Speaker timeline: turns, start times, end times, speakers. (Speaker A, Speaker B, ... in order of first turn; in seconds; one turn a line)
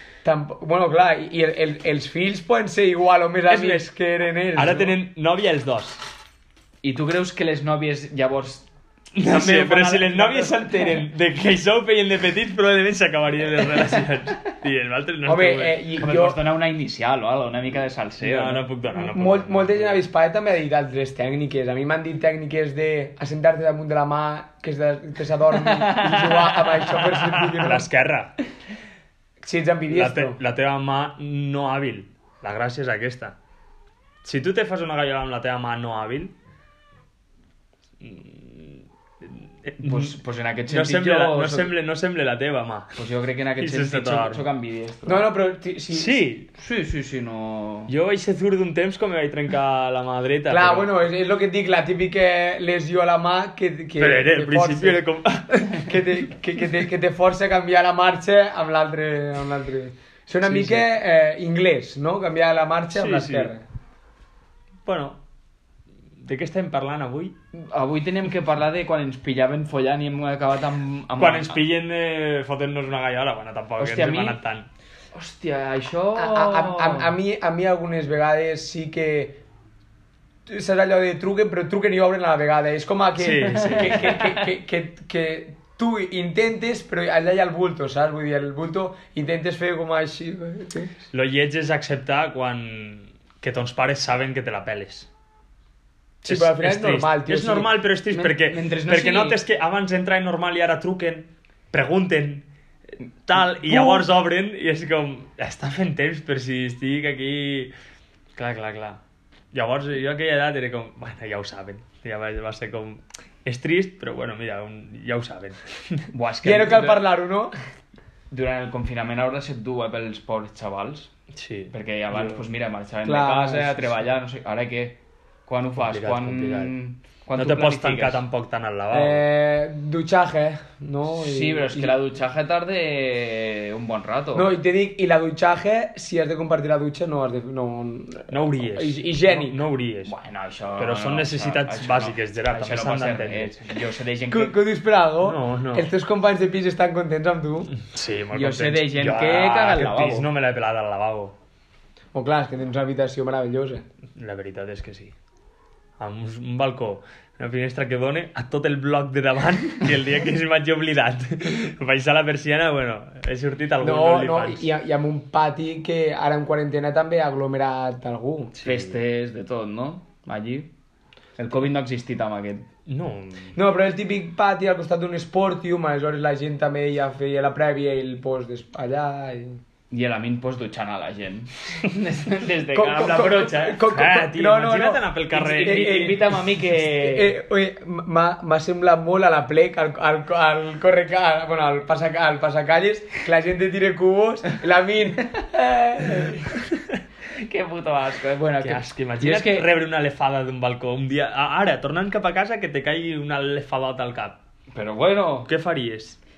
Speaker A: 0.2-5.0
Speaker B: 3.5-3.9
Speaker B: 4.5-6.0
Speaker C: 6.8-11.1
Speaker B: 9.1-15.8
Speaker A: 15.2-16.4
Speaker C: 16.0-18.6
Speaker B: 18.2-20.0
Speaker A: 18.9-27.9
Speaker C: 25.7-26.8
Speaker B: 27.6-28.4
Speaker A: 29.4-30.4
Speaker B: 29.9-33.4
Speaker B: 34.2-36.3
Speaker B: 38.0-40.1
Speaker C: 39.8-41.7
Speaker B: 40.7-43.0
Speaker C: 43.0-45.3
Speaker B: 43.6-44.4
Speaker A: 45.0-46.2
Speaker B: 45.9-46.5
Speaker C: 46.5-47.9
Speaker B: 47.9-50.9
Speaker A: 50.5-55.0
Speaker B: 54.0-56.6
Speaker A: 55.6-63.6
Speaker B: 62.9-63.5
Speaker B: 64.8-65.2
Speaker B: 66.2-67.3
Speaker C: 67.5-71.6
Speaker B: 71.2-74.7
Speaker C: 73.8-74.4
Speaker C: 75.1-77.1
Speaker A: 76.1-79.4
Speaker A: 80.5-90.9
Speaker B: 83.2-84.1
Speaker C: 83.5-84.4
Speaker B: 91.1-95.1
Speaker B: 96.2-102.5
Speaker A: 96.2-97.7
Speaker C: 98.1-99.4
Speaker B: 103.2-107.7
Speaker A: 103.7-104.0
Speaker B: 108.3-109.0
Speaker B: 109.5-116.1
Speaker C: 116.1-117.0
Speaker A: 116.4-117.5
Speaker C: 118.3-121.1
Speaker B: 121.3-122.5
Speaker C: 121.7-128.2
Speaker A: 123.0-124.0
Speaker B: 125.8-126.7
Speaker B: 127.3-129.2
Speaker A: 128.9-131.9
Speaker C: 131.1-134.5
Speaker A: 134.3-139.6
Speaker B: 138.3-140.1
Speaker C: 140.1-144.5
Speaker B: 140.8-143.7
Speaker A: 144.3-147.7
Speaker B: 145.2-145.9
Speaker B: 147.7-151.3
Speaker C: 148.3-150.3
Speaker A: 152.1-153.8
Speaker B: 154.2-155.1
Speaker B: 156.0-164.7
Speaker A: 163.8-168.5
Speaker B: 168.5-169.0
Speaker C: 168.6-170.7
Speaker C: 171.4-172.7
Speaker B: 172.9-173.5
Speaker A: 173.5-179.6
Speaker C: 179.9-183.8
Speaker A: 182.7-196.4
Speaker B: 183.9-186.2
Speaker C: 185.3-187.3
Speaker C: 197.3-199.7
Speaker B: 198.6-204.4
Speaker C: 204.7-205.5
Speaker B: 205.4-206.2